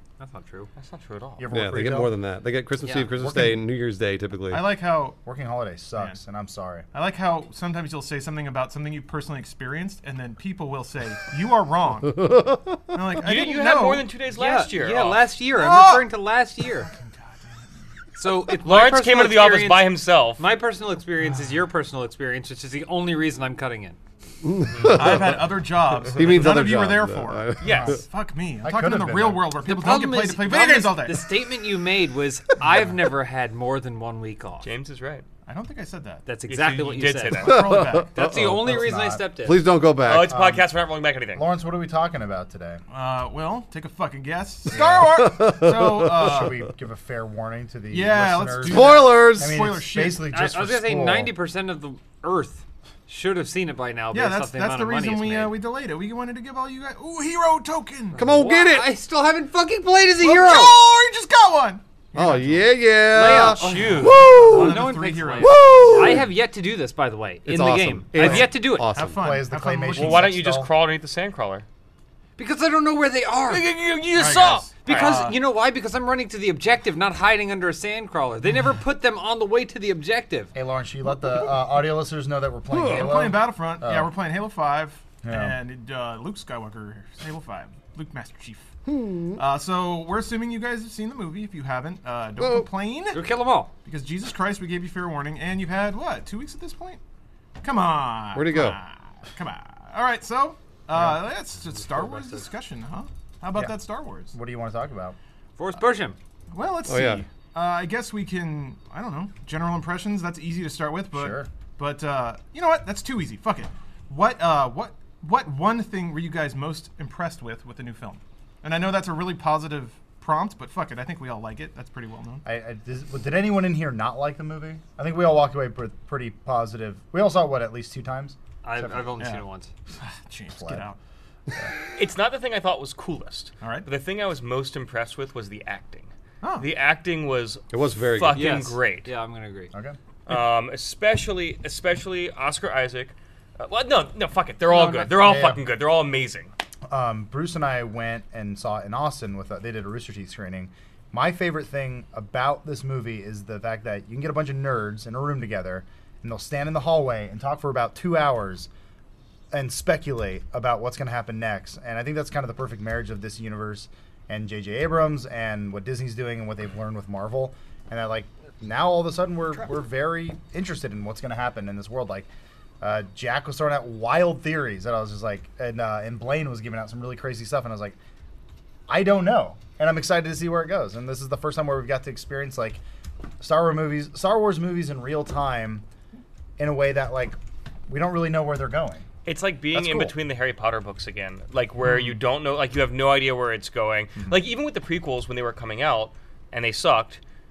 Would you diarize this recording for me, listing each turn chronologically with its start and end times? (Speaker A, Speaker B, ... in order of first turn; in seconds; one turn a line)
Speaker A: 0.2-0.7
Speaker B: 0.8-1.5
Speaker C: 1.4-2.1
Speaker D: 1.5-4.7
Speaker A: 2.8-3.1
Speaker C: 3.2-3.6
Speaker E: 4.5-5.2
Speaker C: 5.2-6.9
Speaker E: 6.9-12.3
Speaker D: 12.2-12.8
Speaker E: 12.9-14.1
Speaker B: 13.2-15.2
Speaker A: 14.3-16.9
Speaker E: 15.5-16.1
Speaker E: 16.8-17.6
Speaker A: 18.1-24.0
Speaker B: 18.6-20.4
Speaker D: 24.4-25.5
Speaker B: 24.6-25.0
Speaker E: 24.8-31.3
Speaker D: 26.0-28.0
Speaker B: 27.6-28.0
Speaker C: 28.6-29.5
Speaker A: 29.6-34.7
Speaker B: 34.6-35.2
Speaker E: 35.5-36.2
Speaker A: 36.3-39.6
Speaker B: 36.5-37.7
Speaker E: 37.4-38.1
Speaker D: 37.5-38.9
Speaker C: 38.5-39.2
Speaker D: 39.4-40.4
Speaker B: 40.0-41.4
Speaker C: 40.2-40.7
Speaker C: 41.3-42.8
Speaker E: 42.9-46.5
Speaker C: 44.7-45.1
Speaker D: 45.1-46.5
Speaker C: 46.1-51.3
Speaker E: 47.9-50.2
Speaker D: 48.6-49.6
Speaker A: 50.3-55.6
Speaker E: 54.1-58.2
Speaker D: 58.1-58.9
Speaker A: 58.2-60.8
Speaker E: 60.2-62.7
Speaker D: 62.1-66.3
Speaker A: 63.1-68.9
Speaker E: 63.7-66.2
Speaker D: 67.5-69.3
Speaker E: 68.9-70.3
Speaker C: 69.0-70.7
Speaker B: 70.0-71.7
Speaker A: 72.4-73.7
Speaker B: 73.5-75.3
Speaker E: 74.2-75.4
Speaker A: 74.8-80.5
Speaker C: 80.5-84.1
Speaker D: 82.8-83.0
Speaker E: 82.8-88.7
Speaker C: 85.2-85.6
Speaker D: 88.9-89.4
Speaker E: 89.4-93.2
Speaker D: 92.4-92.7
Speaker A: 93.1-93.7
Speaker E: 93.8-97.0
Speaker E: 97.6-104.3
Speaker D: 98.3-98.8
Speaker A: 101.9-102.4
Speaker C: 104.3-105.2
Speaker A: 105.6-106.2
Speaker E: 106.5-122.4
Speaker D: 106.9-107.2
Speaker C: 111.1-111.5
Speaker C: 122.5-129.2
Speaker A: 128.6-129.7
Speaker E: 129.2-131.0
Speaker C: 130.6-130.8
Speaker B: 131.9-139.1
Speaker E: 133.6-133.9
Speaker E: 136.4-136.7
Speaker D: 137.7-138.5
Speaker A: 138.3-139.7
Speaker B: 140.3-146.5
Speaker C: 144.8-145.6
Speaker C: 146.9-158.7
Speaker C: 159.5-172.3
Speaker C: 172.8-178.0
Speaker C: 178.9-182.8
Speaker C: 183.4-185.8
Speaker C: 186.6-189.1
Speaker B: 189.3-197.2
Speaker C: 189.7-190.1